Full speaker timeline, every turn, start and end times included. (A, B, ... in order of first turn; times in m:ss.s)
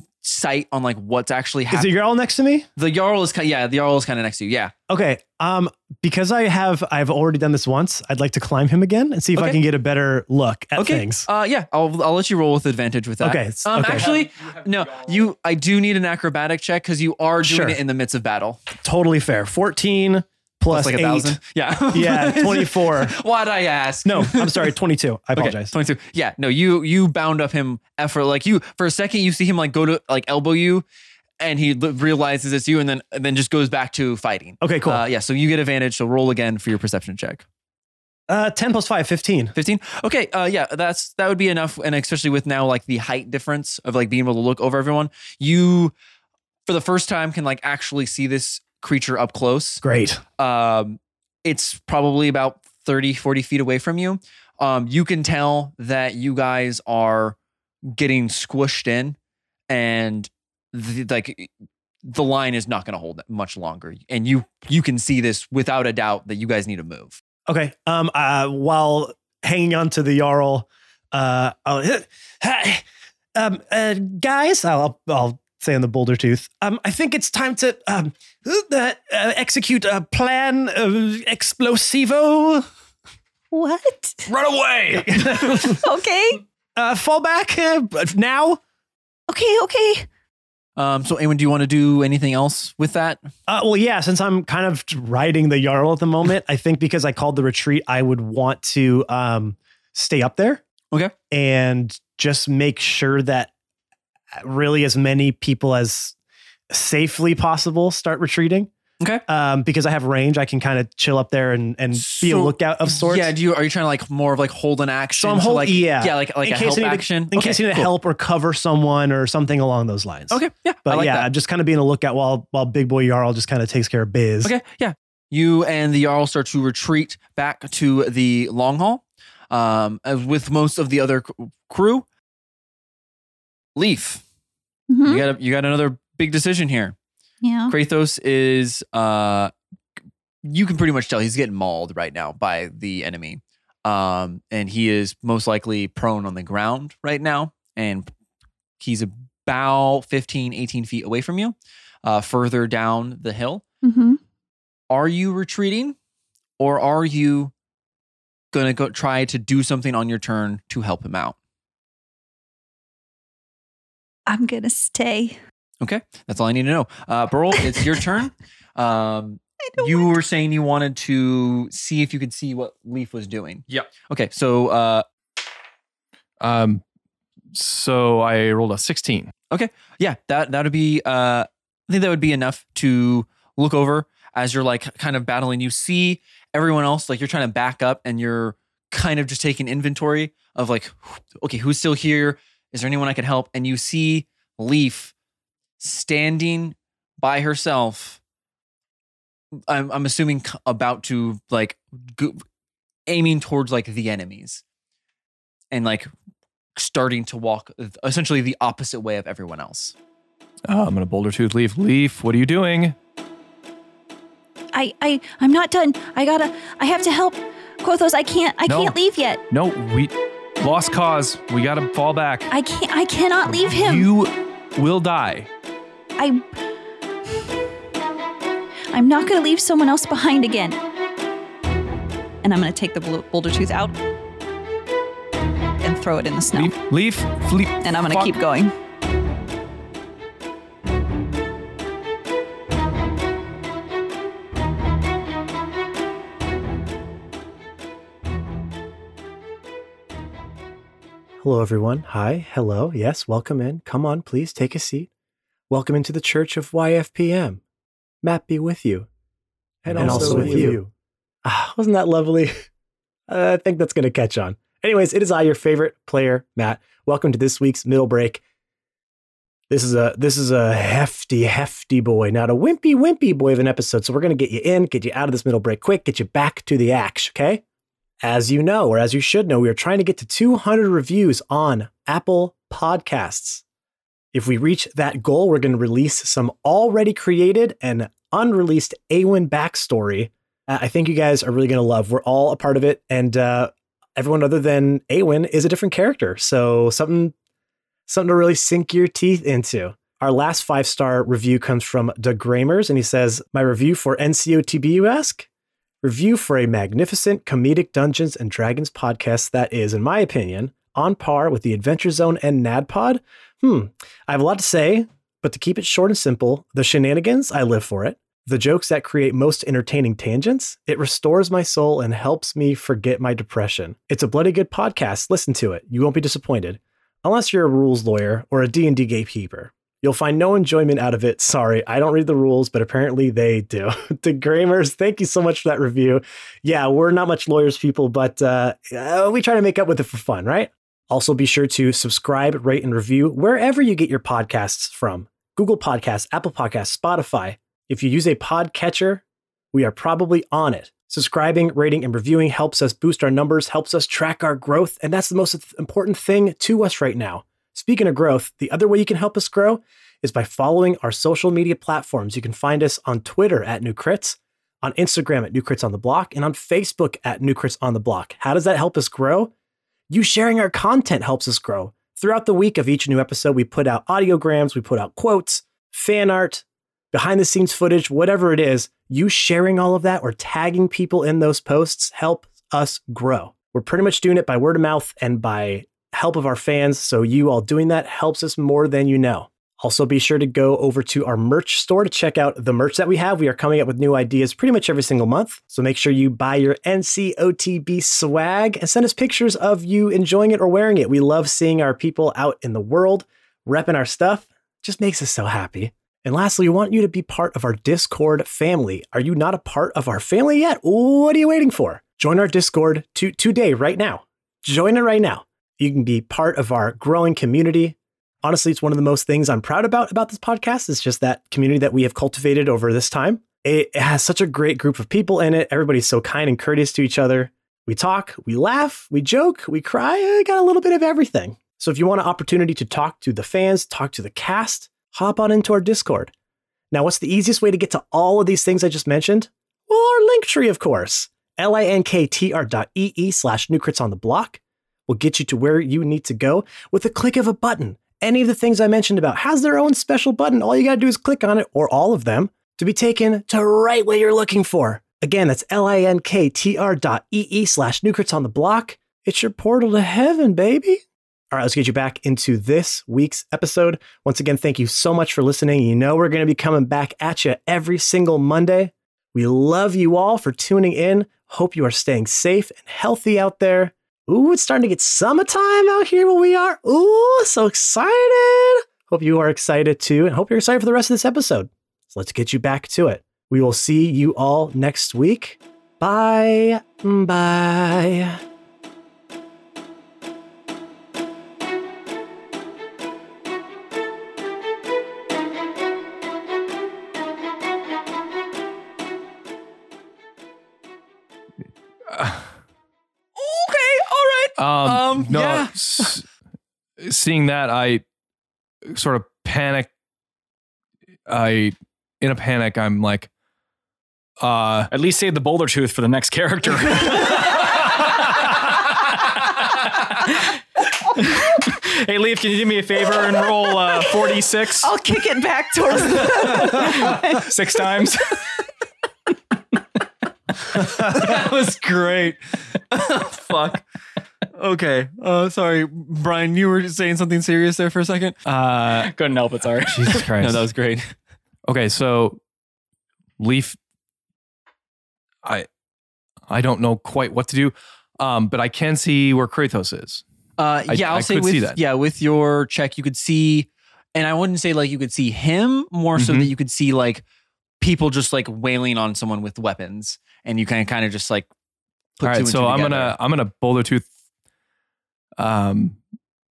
0:00.2-0:01.9 A
0:01.7-0:02.7 B
0:02.8-0:04.7 A
0:04.9-0:11.2 B
0:09.3-0:09.6 A
0:10.8-0:18.6 A
0:13.2-0:14.1 B
0:14.1-0:15.1 C
0:17.4-0:17.8 B
0:18.8-0:21.4 B
0:20.7-0:24.7 A
0:21.9-0:23.1 B
0:24.0-0:25.7 B
0:25.4-0:30.8 A
0:31.4-0:37.4 A
0:34.6-0:35.0 B
0:38.3-0:39.5 B
0:39.5-0:45.9 A
0:46.7-0:49.8 A
0:49.8-0:50.2 B
0:50.4-0:57.4 A
0:57.9-0:59.2 A
0:59.7-1:01.5 A
1:02.0-1:07.2 A
1:07.5-1:12.8 B
1:13.3-1:22.7 B
1:23.5-1:24.3 D
1:24.9-1:25.8 B
1:25.6-1:26.4 D
1:26.8-1:28.6 B
1:29.3-1:30.0 D
1:30.8-1:33.2 A
1:33.5-1:40.6 B
1:41.3-1:43.5 B
1:44.4-1:46.1 B
1:46.7-1:48.7 B
1:49.0-1:49.2 A
1:49.3-1:53.3 B
1:51.9-1:57.9 A
1:55.1-2:04.5 B
2:00.3-2:01.3 A
2:04.4-2:12.0 A
2:13.8-2:14.2 A
2:14.9-2:15.2 D
2:15.0-2:17.0 A
2:17.4-2:17.7 D
2:17.7-2:19.5 A
2:20.4-2:28.1 A
2:28.8-2:33.6 A
2:33.8-2:34.2 D
2:34.9-2:36.0 A
2:36.6-2:37.5 A
2:38.5-2:41.4 A
2:44.3-2:45.4 D
2:45.8-2:55.0 A
2:49.7-2:50.1 D
2:56.4-2:56.8 E
2:57.5-2:59.3 E
2:59.5-3:15.1 A
3:15.8-3:18.2 A
3:19.7-3:22.4 A
3:23.1-3:24.6 A
3:25.7-3:26.1 A
3:26.8-3:29.9 A
3:30.7-3:33.0 E
3:34.7-3:39.4 D
3:38.6-3:39.0 E
3:39.5-3:42.5 E
3:42.5-3:44.1 D
3:43.4-3:45.5 E
3:46.2-3:46.4 D
3:48.9-3:50.8 D
3:52.4-3:53.9 D
3:55.8-3:56.8 D
3:56.5-3:58.4 E
3:57.8-3:58.7 D
4:11.4-4:15.1 B
4:15.7-4:17.6 B
4:18.2-4:19.1 B
4:19.8-4:20.9 B
4:19.9-4:20.8 E
4:20.1-4:20.6 A
4:21.4-4:22.6 B
4:23.3-4:28.4 B
4:29.7-4:37.6 B
4:38.2-4:43.6 B
4:44.3-4:57.3 B
4:58.1-5:05.4 B
5:06.0-6:09.5 B
6:10.1-7:16.3 B
7:16.9-8:08.4 B
8:22.1-8:22.5 E
8:23.4-8:26.2 A
8:24.6-8:26.2 E
8:27.0-8:28.0 E
8:28.9-8:29.9 E
8:31.3-8:33.3 E
8:34.4-8:34.9 E
8:34.9-8:37.6 C
8:40.2-8:40.4 C
8:41.1-8:44.9 C
8:44.8-8:47.5 D
8:46.1-8:48.4 C
8:50.7-8:53.8 A
8:54.5-8:58.4 A
8:58.4-8:59.1 E
8:59.0-9:00.2 C
8:59.9-9:00.6 E
9:00.3-9:01.1 A
9:01.7-9:02.4 E
9:03.4-9:03.8 E
9:06.5-9:10.2 E
9:10.6-9:17.2 A
9:10.9-9:11.8 E
9:16.2-9:16.5 E
9:17.8-9:21.5 A
9:22.2-9:23.1 A
9:22.2-9:24.1 E
9:25.4-9:26.0 E